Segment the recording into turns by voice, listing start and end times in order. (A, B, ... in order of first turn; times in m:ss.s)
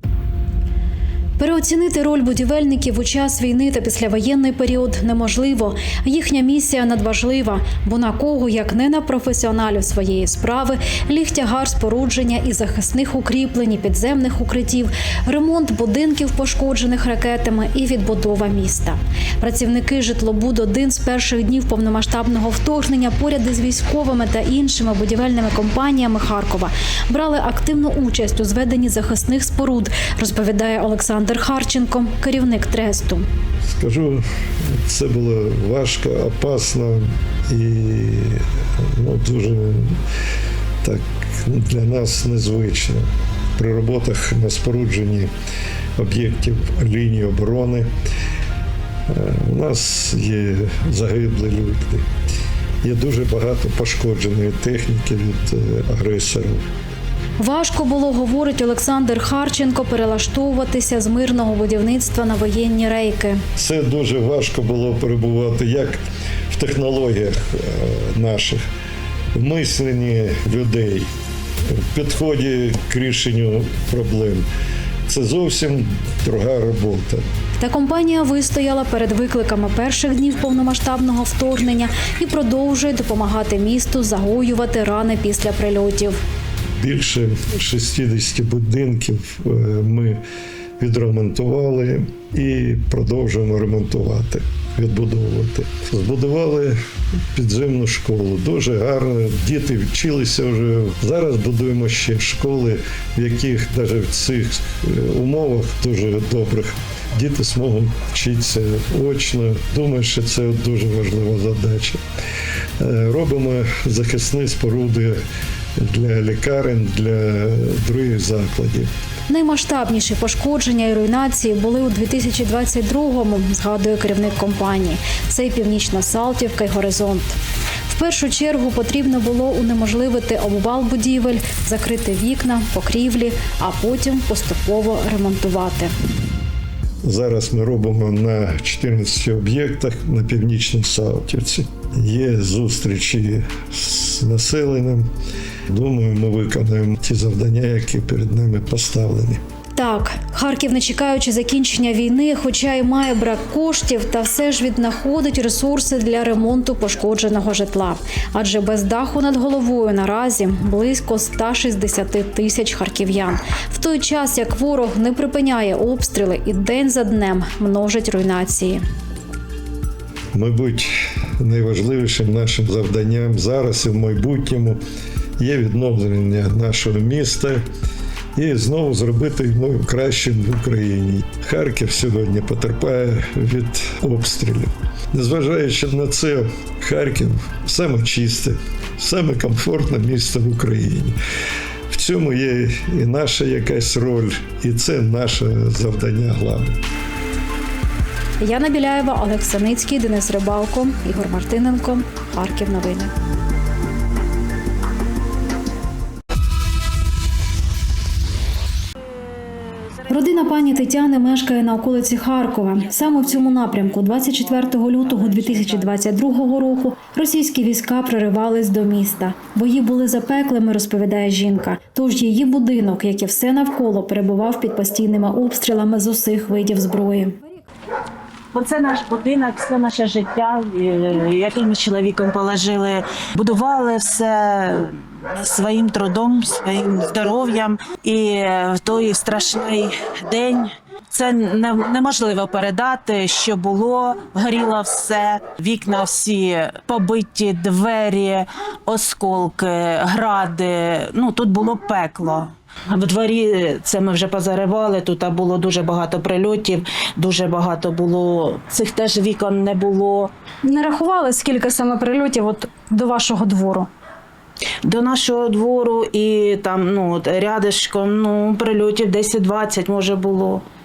0:01.4-0:33.2 A
0:33.6-0:38.4 B
0:39.0-0:40.0 B
0:40.8-0:45.3 B
0:46.0-0:47.9 B
0:49.1-0:52.0 B
0:52.8-0:56.6 B
0:57.4-1:03.4 A
1:03.6-1:08.6 B
1:09.3-1:11.1 B
1:11.8-1:14.5 B
1:15.1-1:17.2 B
1:17.6-1:26.2 A
1:26.8-1:30.2 B
1:30.8-1:36.8 B
1:37.3-1:52.0 B
1:52.8-1:55.2 B
1:55.8-1:58.9 B
1:59.3-2:07.3 A
2:07.9-2:15.9 A
2:17.0-2:25.1 B
2:25.7-2:29.4 B
2:29.7-2:48.8 A
2:50.3-2:54.8 B
2:55.4-2:57.6 B
2:58.4-3:11.2 B
3:11.9-3:16.8 B
3:18.4-3:23.1 A
3:30.1-3:47.4 A
3:48.5-4:20.3 C
4:20.6-4:23.9 A
4:24.8-4:30.6 C